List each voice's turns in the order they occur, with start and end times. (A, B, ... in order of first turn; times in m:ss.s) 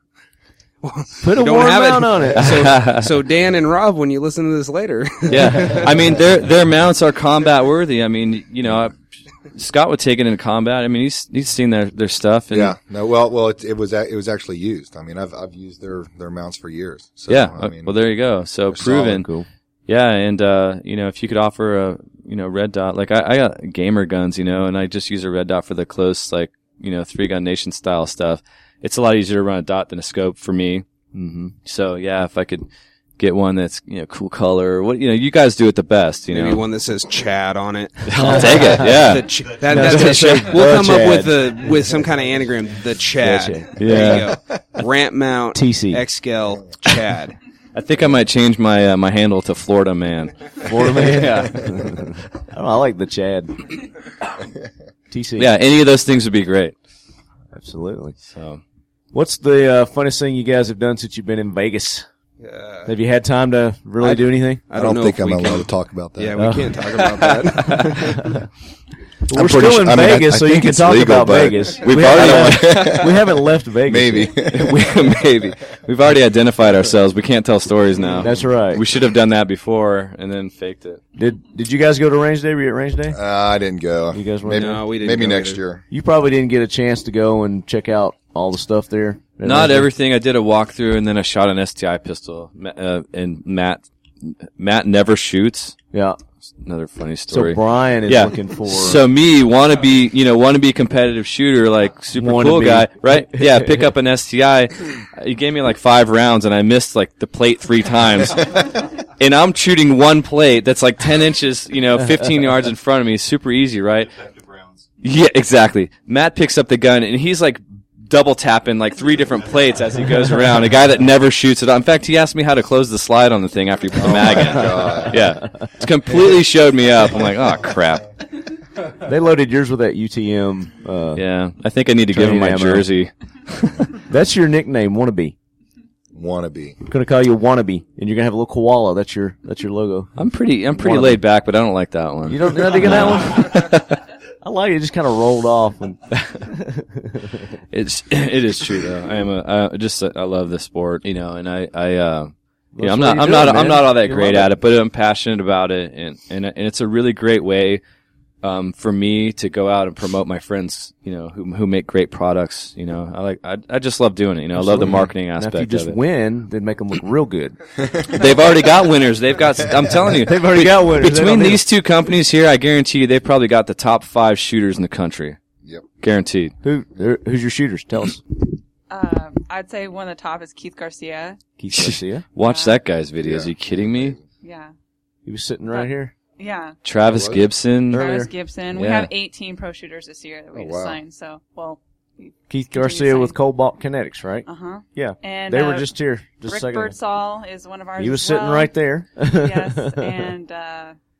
0:00.8-0:06.1 A
0:01.2-0:02.5 B
0:02.4-0:03.1 C
0:05.3-0:12.8 C
0:12.5-0:17.9 D
0:17.3-0:19.2 C
0:18.7-0:19.1 D
0:18.8-0:19.5 B
0:19.9-0:30.8 C
0:31.1-0:31.5 B
0:31.6-0:32.7 C
0:33.2-0:36.6 C
0:36.3-0:47.4 A
0:38.1-0:40.6 C
0:38.2-0:38.9 B
0:39.7-0:41.5 B
0:43.2-0:44.0 B
0:43.8-0:44.3 C
0:45.5-0:46.0 B
0:47.7-0:50.4 C
0:50.6-0:53.7 B
0:55.1-0:55.5 B
0:55.4-0:56.7 C
0:57.5-0:58.2 B
0:58.3-0:58.6 C
0:59.1-1:02.1 B
1:02.4-1:02.9 A
1:02.8-1:04.6 B
1:04.0-1:08.3 A
1:04.7-1:06.5 D
1:06.4-1:06.7 B
1:07.7-1:08.4 B
1:09.3-1:14.4 B
1:09.3-1:13.3 D
1:11.8-1:13.1 C
1:13.9-1:15.2 D
1:14.4-1:21.0 C
1:18.2-1:18.8 B
1:21.2-1:23.2 B
1:23.1-1:25.8 D
1:24.1-1:24.8 B
1:24.5-1:25.6 A
1:25.9-1:29.9 B
1:29.4-1:35.8 C
1:35.9-1:36.2 B
1:36.6-1:54.3 C
1:37.3-1:39.0 B
1:42.1-1:43.8 B
1:55.0-2:08.1 C
2:04.0-2:05.2 D
2:05.4-2:05.7 B
2:09.0-2:11.2 B
2:11.1-2:14.0 C
2:12.1-2:12.9 B
2:14.0-2:15.4 B
2:16.1-2:16.8 D
2:16.8-2:20.2 B
2:20.2-2:24.0 C
2:20.8-2:21.2 B
2:22.3-2:23.7 B
2:24.4-2:27.5 B
2:27.7-2:37.8 C
2:32.7-2:34.5 B
2:38.4-2:46.0 C
2:44.5-2:47.6 B
2:47.9-2:48.2 D
2:48.1-2:55.4 C
2:50.2-2:51.6 B
2:56.0-2:56.5 C
2:56.6-2:58.4 B
2:58.9-3:01.4 E
3:01.6-3:02.2 B
3:01.7-3:04.2 C
3:02.4-3:02.8 E
3:03.2-3:04.2 D
3:04.4-3:04.7 E
3:05.2-3:06.1 B
3:05.7-3:06.8 E
3:06.8-3:08.1 C
3:07.0-3:07.5 D
3:07.9-3:08.3 B
3:07.9-3:13.4 E
3:08.7-3:09.1 C
3:10.5-3:11.0 D
3:12.5-3:17.0 B
3:14.4-3:21.0 E
3:18.0-3:20.3 B